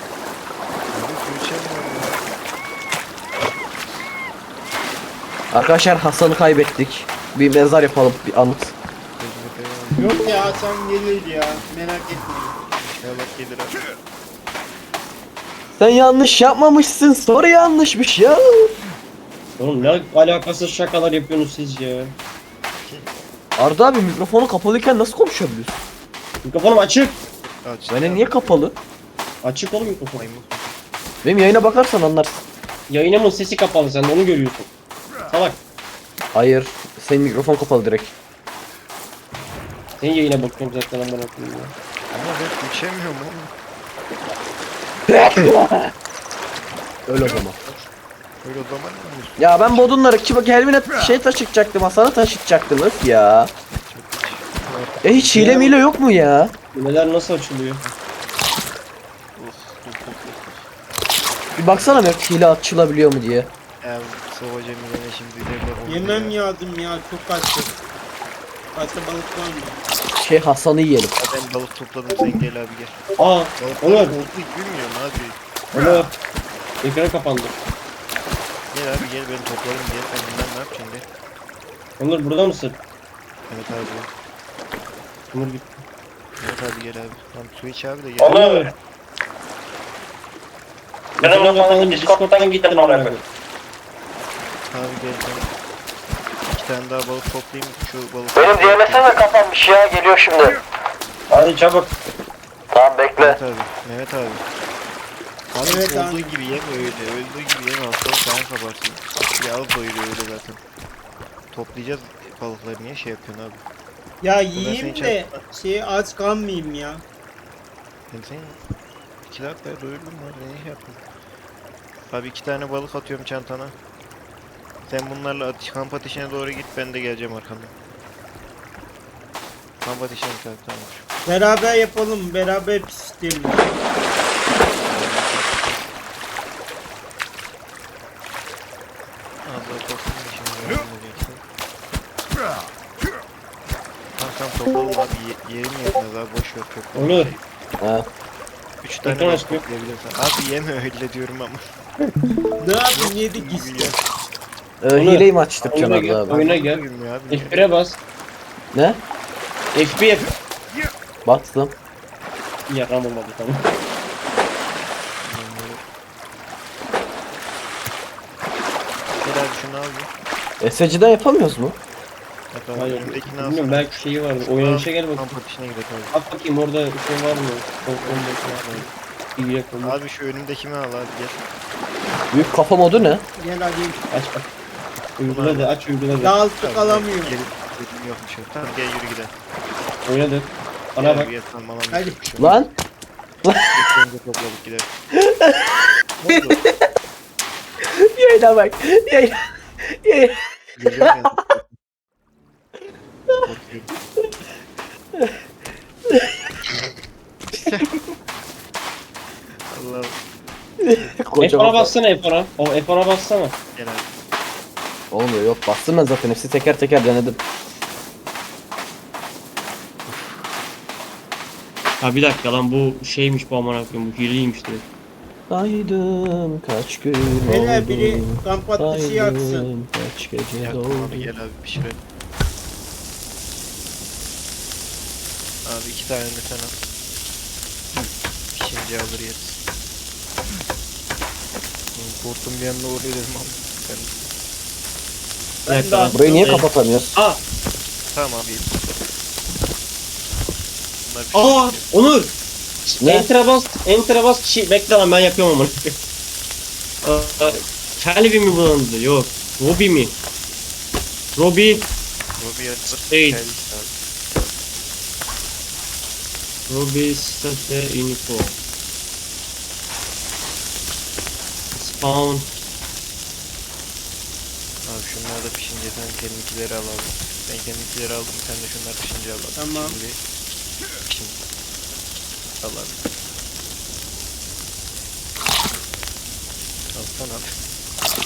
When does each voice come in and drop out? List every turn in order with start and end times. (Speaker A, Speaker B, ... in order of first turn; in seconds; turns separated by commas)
Speaker A: 0.9-2.2, Speaker B: 5.5-8.7, Speaker A: 9.2-10.7, Speaker C: 10.0-12.6, Speaker A: 11.2-11.7, Speaker A: 12.7-13.9, Speaker B: 15.8-18.7, Speaker D: 19.6-22.1, Speaker A: 19.8-20.1, Speaker A: 22.8-23.2, Speaker B: 23.6-25.7, Speaker D: 26.4-27.2, Speaker A: 27.3-28.6, Speaker B: 27.9-28.8, Speaker D: 29.4-30.3, Speaker A: 29.8-30.8, Speaker B: 31.2-32.4, Speaker D: 32.9-34.7, Speaker D: 35.3-35.6, Speaker B: 36.3-38.1, Speaker D: 40.0-41.7, Speaker A: 42.1-43.5, Speaker B: 45.1-45.9, Speaker B: 47.1-47.6, Speaker A: 47.2-47.8, Speaker A: 48.4-49.9, Speaker B: 49.4-53.5, Speaker A: 53.7-55.6, Speaker B: 55.0-56.5, Speaker D: 55.3-55.8, Speaker D: 56.7-57.8, Speaker A: 59.4-60.7, Speaker B: 61.6-63.5, Speaker A: 61.7-62.1, Speaker A: 63.8-66.4, Speaker C: 65.9-67.8, Speaker C: 68.8-69.8, Speaker B: 70.1-71.1, Speaker A: 71.2-73.0, Speaker D: 73.2-74.2, Speaker A: 73.6-75.9, Speaker D: 75.7-76.1, Speaker D: 76.8-77.5, Speaker A: 78.7-81.1, Speaker D: 82.0-82.8, Speaker A: 83.5-84.1, Speaker D: 85.3-85.8, Speaker A: 86.4-88.7, Speaker D: 88.2-88.7, Speaker D: 91.2-93.2, Speaker B: 91.2-92.2, Speaker B: 92.8-93.1, Speaker A: 94.7-95.5, Speaker A: 96.5-99.2, Speaker B: 98.4-100.6, Speaker D: 101.3-101.9, Speaker B: 102.7-103.4, Speaker A: 103.2-104.4, Speaker A: 105.5-110.6, Speaker C: 105.6-106.4, Speaker A: 111.5-113.7, Speaker C: 114.2-117.0, Speaker A: 114.5-115.4, Speaker A: 118.1-118.6, Speaker A: 119.2-121.0, Speaker A: 122.1-123.8, Speaker A: 124.9-127.8, Speaker A: 129.8-131.0, Speaker C: 131.3-133.8, Speaker A: 134.8-135.9, Speaker A: 139.4-141.4, Speaker A: 144.2-147.4, Speaker D: 146.9-147.3, Speaker B: 147.8-148.1, Speaker A: 148.8-151.6, Speaker D: 149.0-149.6, Speaker C: 152.6-154.0, Speaker A: 152.7-154.0, Speaker B: 154.8-156.4, Speaker D: 154.9-158.0, Speaker A: 156.3-157.7, Speaker B: 158.7-159.0, Speaker D: 159.7-160.3, Speaker B: 161.2-161.8, Speaker D: 162.7-163.7, Speaker A: 165.2-165.8, Speaker A: 169.1-170.1, Speaker B: 170.6-171.8, Speaker A: 172.5-176.2, Speaker D: 172.8-175.3, Speaker D: 176.1-180.0, Speaker A: 178.0-178.9, Speaker A: 179.8-181.5, Speaker B: 182.3-183.2, Speaker A: 182.4-182.6, Speaker C: 183.4-184.1, Speaker D: 184.1-184.5, Speaker D: 185.2-186.3, Speaker A: 185.3-185.8, Speaker C: 186.2-187.4, Speaker A: 186.6-189.3, Speaker D: 190.1-191.3, Speaker A: 191.0-192.6, Speaker C: 191.9-192.2, Speaker B: 192.4-192.7, Speaker B: 193.4-193.9, Speaker A: 193.7-194.9, Speaker B: 195.1-196.9, Speaker A: 196.2-196.6, Speaker B: 198.0-200.4, Speaker A: 200.8-201.8, Speaker B: 201.0-201.3, Speaker A: 203.4-203.9, Speaker B: 206.1-206.4, Speaker A: 207.5-208.0, Speaker A: 209.7-210.2, Speaker B: 210.8-211.9, Speaker D: 211.4-213.5, Speaker A: 213.8-214.1, Speaker B: 215.1-217.4, Speaker D: 222.0-224.9, Speaker B: 225.5-231.3, Speaker C: 227.5-229.7, Speaker A: 230.6-232.0, Speaker A: 235.6-236.8, Speaker A: 237.9-239.6, Speaker A: 241.9-244.2, Speaker C: 245.7-246.6, Speaker D: 245.7-247.4, Speaker B: 246.1-247.2, Speaker A: 248.1-248.9, Speaker A: 251.0-251.9, Speaker D: 251.3-252.3, Speaker D: 252.9-256.0, Speaker B: 253.0-253.3, Speaker D: 257.0-260.2, Speaker D: 261.4-261.9, Speaker A: 261.7-264.6, Speaker D: 263.1-263.4, Speaker D: 266.7-268.6, Speaker D: 271.8-272.5, Speaker A: 274.9-280.2, Speaker C: 279.6-280.0, Speaker A: 281.0-281.4, Speaker A: 282.6-283.0, Speaker A: 286.9-287.6